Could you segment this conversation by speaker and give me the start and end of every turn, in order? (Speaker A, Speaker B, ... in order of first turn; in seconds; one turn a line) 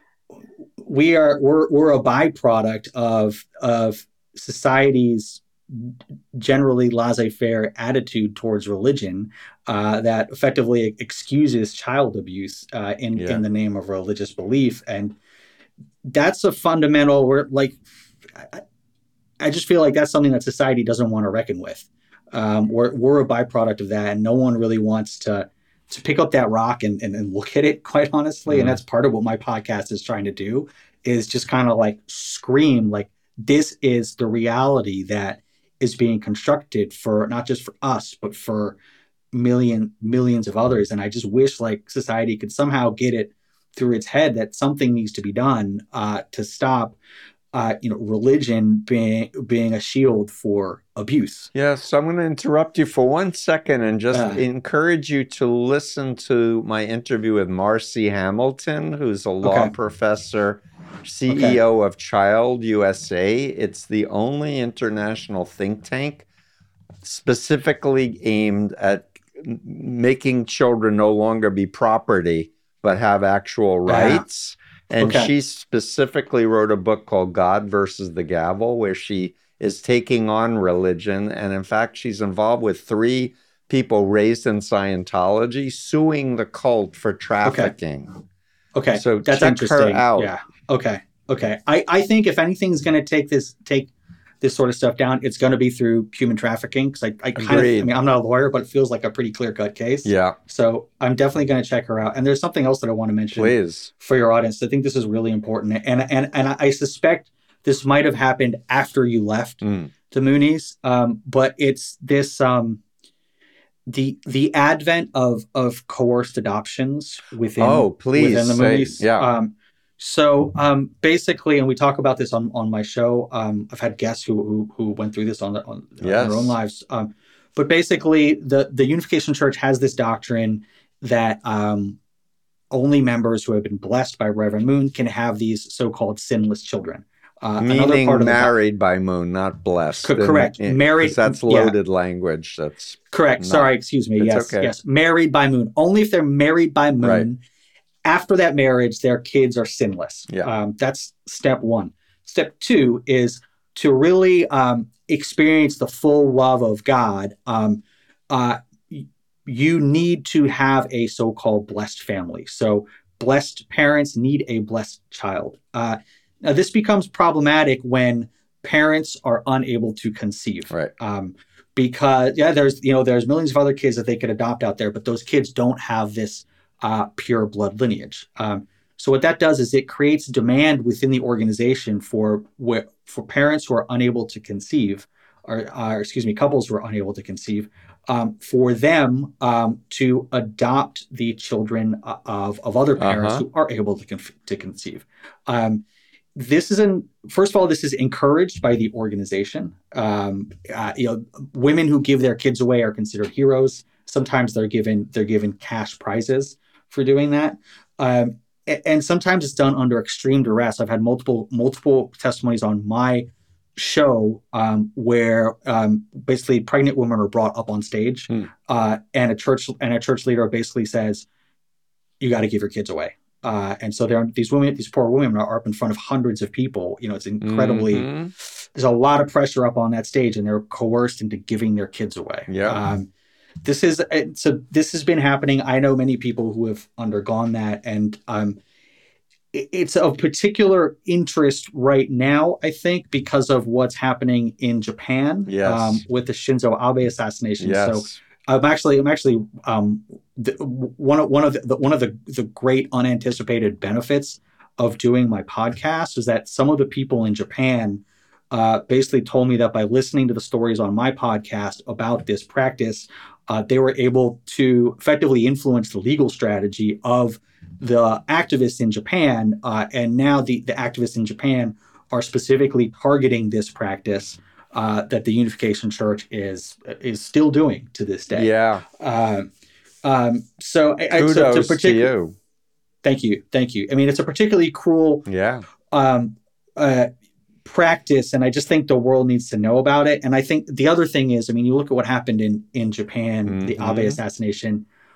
Speaker A: 0.8-15.2
Speaker B: 13.2-13.4
Speaker A: 16.0-18.6
Speaker A: 19.4-38.8
Speaker B: 28.5-28.8
Speaker A: 39.3-47.0
Speaker A: 47.5-51.5
Speaker B: 51.5-66.2
Speaker A: 54.1-54.4
Speaker A: 59.4-59.7
Speaker A: 61.3-61.6
Speaker B: 67.0-88.1
Speaker A: 73.9-74.2
Speaker A: 75.0-75.3
Speaker A: 87.4-87.7
Speaker A: 88.7-93.9
Speaker B: 88.9-90.3
Speaker A: 94.4-112.8
Speaker B: 97.3-97.9
Speaker B: 100.0-100.4
Speaker B: 103.4-103.9
Speaker B: 109.6-109.9
Speaker A: 113.9-132.0
Speaker B: 117.6-119.3
Speaker B: 126.0-126.5
Speaker A: 132.7-138.5
Speaker B: 137.6-144.7
Speaker A: 140.0-141.8
Speaker A: 143.1-147.4
Speaker B: 147.0-147.3
Speaker A: 148.0-195.8
Speaker B: 193.0-193.4
Speaker A: 196.3-221.2
Speaker A: 222.2-233.1
Speaker B: 227.4-228.3
Speaker B: 232.5-232.9
Speaker A: 233.6-238.6
Speaker A: 239.5-279.5
Speaker B: 245.4-246.0
Speaker B: 247.6-248.2
Speaker B: 278.3-278.8
Speaker A: 280.0-282.1
Speaker B: 281.1-282.3
Speaker A: 283.0-285.3
Speaker B: 285.3-285.6
Speaker A: 285.9-287.1
Speaker A: 287.6-294.8
Speaker B: 293.4-294.2